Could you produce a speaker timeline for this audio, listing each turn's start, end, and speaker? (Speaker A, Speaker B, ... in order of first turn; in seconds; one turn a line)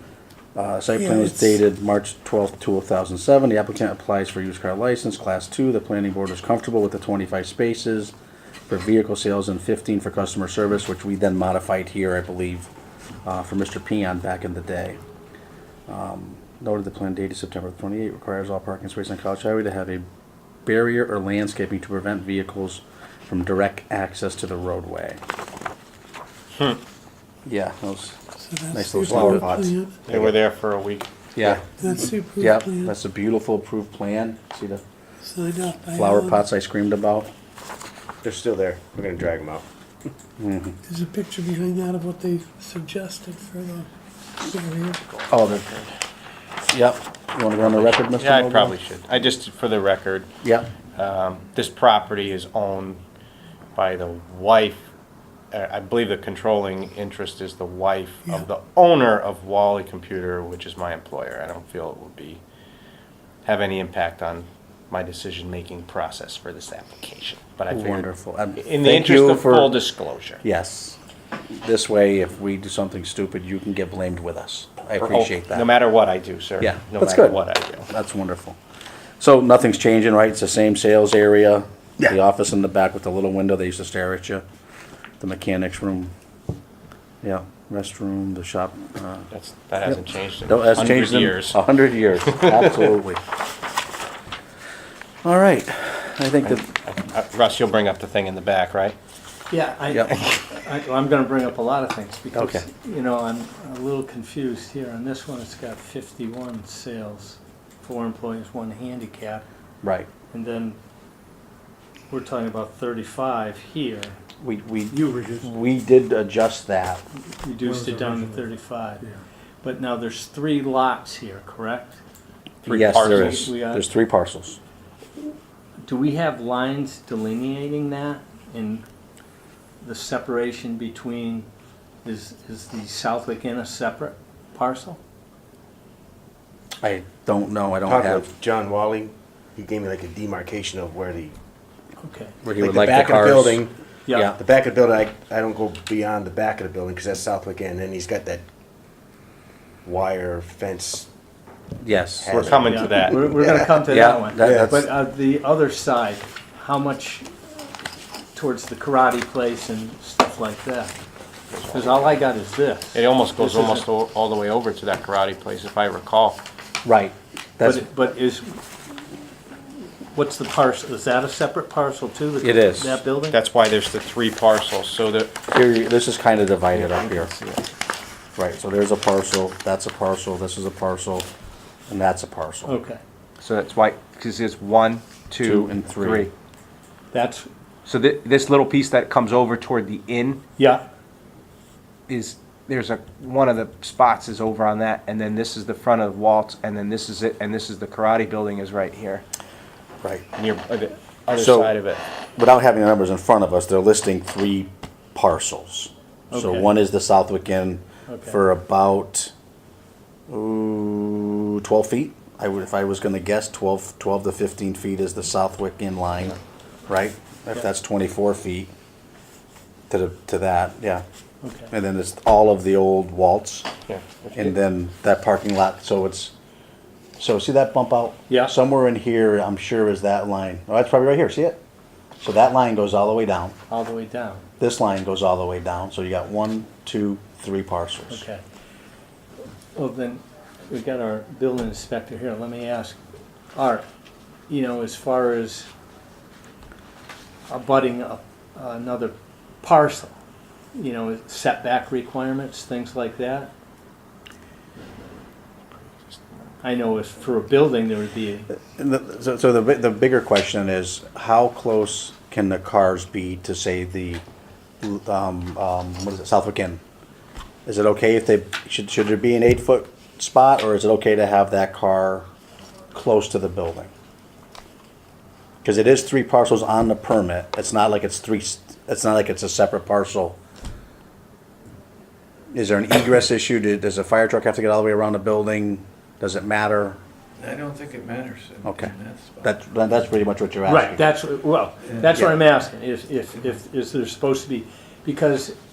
Speaker A: 0.5-8.1
Speaker B: 1.0-1.6
Speaker A: 8.7-12.7
Speaker A: 13.2-15.0
Speaker A: 15.9-20.0
Speaker A: 20.6-25.2
Speaker A: 27.4-28.2
Speaker B: 28.4-30.0
Speaker A: 28.7-29.5
Speaker C: 29.0-30.4
Speaker D: 30.1-31.1
Speaker A: 31.3-31.6
Speaker B: 31.8-32.9
Speaker A: 32.4-34.8
Speaker B: 35.2-36.4
Speaker A: 35.9-37.3
Speaker C: 38.2-39.6
Speaker A: 40.4-40.8
Speaker B: 40.9-43.9
Speaker B: 44.4-45.0
Speaker D: 45.1-45.9
Speaker A: 45.3-45.7
Speaker A: 46.7-48.7
Speaker D: 47.6-50.3
Speaker A: 50.4-50.7
Speaker D: 51.0-53.0
Speaker D: 53.8-54.8
Speaker D: 55.5-62.4
Speaker D: 63.4-70.4
Speaker A: 67.7-69.8
Speaker A: 70.4-71.0
Speaker A: 71.5-75.7
Speaker D: 75.0-77.9
Speaker A: 76.6-78.6
Speaker A: 79.2-84.4
Speaker A: 85.2-86.1
Speaker A: 87.2-89.3
Speaker D: 89.3-91.6
Speaker A: 89.8-93.2
Speaker D: 92.4-92.8
Speaker A: 95.2-96.7
Speaker D: 96.4-99.0
Speaker E: 99.5-109.4
Speaker A: 99.9-100.2
Speaker A: 102.3-102.7
Speaker A: 109.8-110.1
Speaker E: 110.3-110.8
Speaker E: 112.1-114.2
Speaker A: 114.4-117.0
Speaker E: 117.3-119.0
Speaker B: 117.6-118.4
Speaker E: 119.6-122.0
Speaker D: 122.6-123.5
Speaker A: 122.7-124.6
Speaker E: 123.0-123.9
Speaker E: 125.8-128.8
Speaker E: 129.8-131.5
Speaker E: 132.0-135.0
Speaker A: 136.8-138.2
Speaker C: 137.8-141.3
Speaker E: 142.0-142.4
Speaker A: 142.4-144.4
Speaker C: 142.6-148.4
Speaker C: 149.8-151.1
Speaker A: 151.8-152.6
Speaker C: 152.2-153.7
Speaker D: 152.3-153.2
Speaker E: 152.6-157.4
Speaker A: 153.8-154.8
Speaker C: 154.4-154.8
Speaker E: 158.3-160.9
Speaker D: 161.5-162.2
Speaker E: 161.7-163.9
Speaker D: 162.9-166.4
Speaker A: 166.8-167.9
Speaker E: 167.6-168.6
Speaker E: 169.6-173.4
Speaker A: 172.4-173.0
Speaker D: 173.3-175.3
Speaker A: 175.5-177.3
Speaker D: 176.7-177.7
Speaker A: 178.3-181.3
Speaker A: 181.9-182.7
Speaker E: 182.6-183.0
Speaker D: 183.4-186.3
Speaker A: 185.4-186.3
Speaker E: 187.1-187.5
Speaker D: 187.8-190.4
Speaker E: 190.6-190.8
Speaker D: 192.1-199.2
Speaker D: 200.3-202.0
Speaker A: 201.3-201.7
Speaker A: 202.3-209.3
Speaker E: 206.3-206.7
Speaker E: 208.1-208.4
Speaker A: 210.3-218.7
Speaker A: 219.9-221.0
Speaker E: 221.4-221.7
Speaker A: 221.7-223.7
Speaker D: 223.9-224.5
Speaker A: 224.3-226.3
Speaker A: 227.2-231.6
Speaker E: 228.3-228.5
Speaker A: 232.2-233.6
Speaker E: 233.7-234.5
Speaker A: 234.6-238.2
Speaker E: 238.1-238.4
Speaker E: 239.7-243.0
Speaker E: 243.5-243.8
Speaker E: 244.5-245.7
Speaker E: 247.5-250.1
Speaker E: 250.7-253.5
Speaker D: 255.7-256.4
Speaker E: 256.6-258.5
Speaker A: 258.5-264.2
Speaker A: 264.8-266.8
Speaker A: 267.6-272.2
Speaker A: 272.9-273.9
Speaker A: 275.6-280.4
Speaker A: 282.5-287.0
Speaker F: 287.4-289.4
Speaker A: 288.6-291.1
Speaker E: 290.6-295.6
Speaker A: 292.1-292.4